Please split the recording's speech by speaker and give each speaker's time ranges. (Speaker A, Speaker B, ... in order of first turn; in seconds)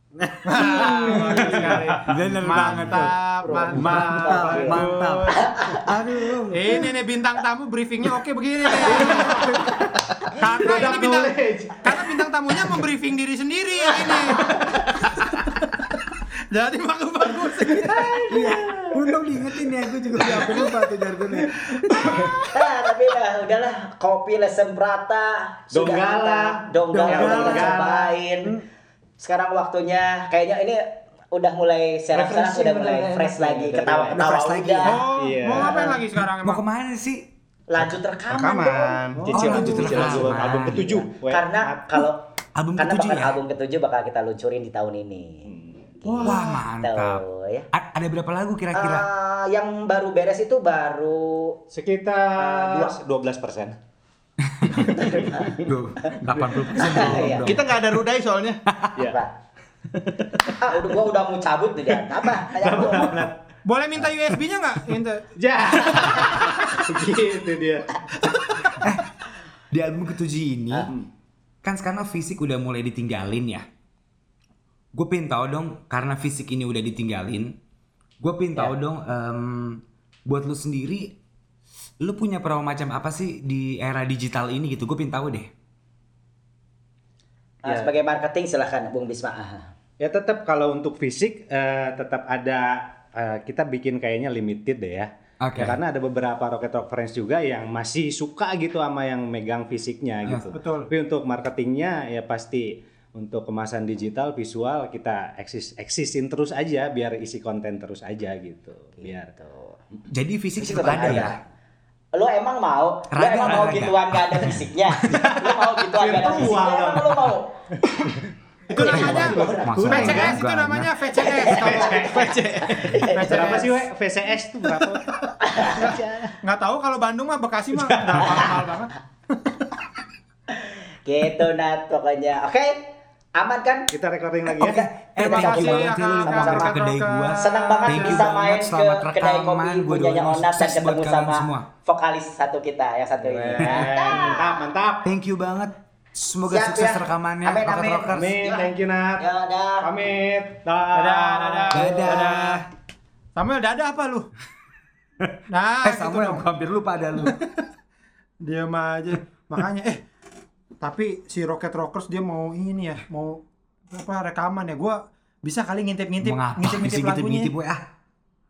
Speaker A: 0.2-6.9, 8.8-10.0, 18.3-22.3, 26.9-27.8, 32.1-37.3, 39.3-40.8, 42.5-43.4, 46.2-49.0, 54.5-57.6, 68.8-69.1, 69.7-70.9, 71.6-73.6, 74.9-77.6, 78.2-81.2, 82.0-85.5, 95.4-95.8, 110.1-111.4, 113.1-115.3, 118.9-121.0, 135.2-141.7, 143.7-144.0, 145.0-148.4, 151.7-152.7, 155.8-157.4, 166.2-167.8
Speaker B: 0.5-5.8, 6.5-9.5, 10.3-14.7, 15.3-15.6, 16.5-18.9, 20.2-20.8, 21.7-22.4, 34.8-36.6, 39.1-40.0, 46.0-46.6, 63.6-65.2, 65.8-66.2, 100.5-100.9, 118.7-122.1, 123.1-123.8, 125.7-129.5, 135.2-138.3, 150.9-152.7, 153.3-154.3, 155.5-156.4, 157.2-157.6, 158.4-160.0, 160.8-167.5
Speaker C: 1.1-2.0, 3.5-4.9, 10.4-12.2, 25.7-28.2, 33.4-34.3, 35.1-35.9, 39.2-42.0, 45.5-45.9, 51.7-53.8, 54.9-55.4, 56.3-57.4, 62.5-63.4, 65.3-67.9, 87.6-87.9, 90.0-109.3, 115.1-117.3, 119.9-120.3, 121.4-122.3, 123.2-126.1, 127.8-128.4, 133.9-134.9, 143.2-145.1, 148.1-149.3, 149.8-152.2
Speaker D: 3.5-4.8, 22.5-28.5, 29.2-35.0, 37.7-42.2, 42.8-45.5, 46.0-47.7, 48.7-51.6, 52.4-53.0, 54.9-55.5, 56.8-57.5, 59.0-59.3, 60.6-63.2, 87.6-89.7, 109.0-109.8, 110.6-111.4, 112.1-117.5, 118.7-120.3, 121.2-123.7, 125.4-125.9, 130.5-133.9, 134.5-136.7, 137.4-144.4, 146.5-149.9
Speaker E: 38.3-39.2, 57.4-58.6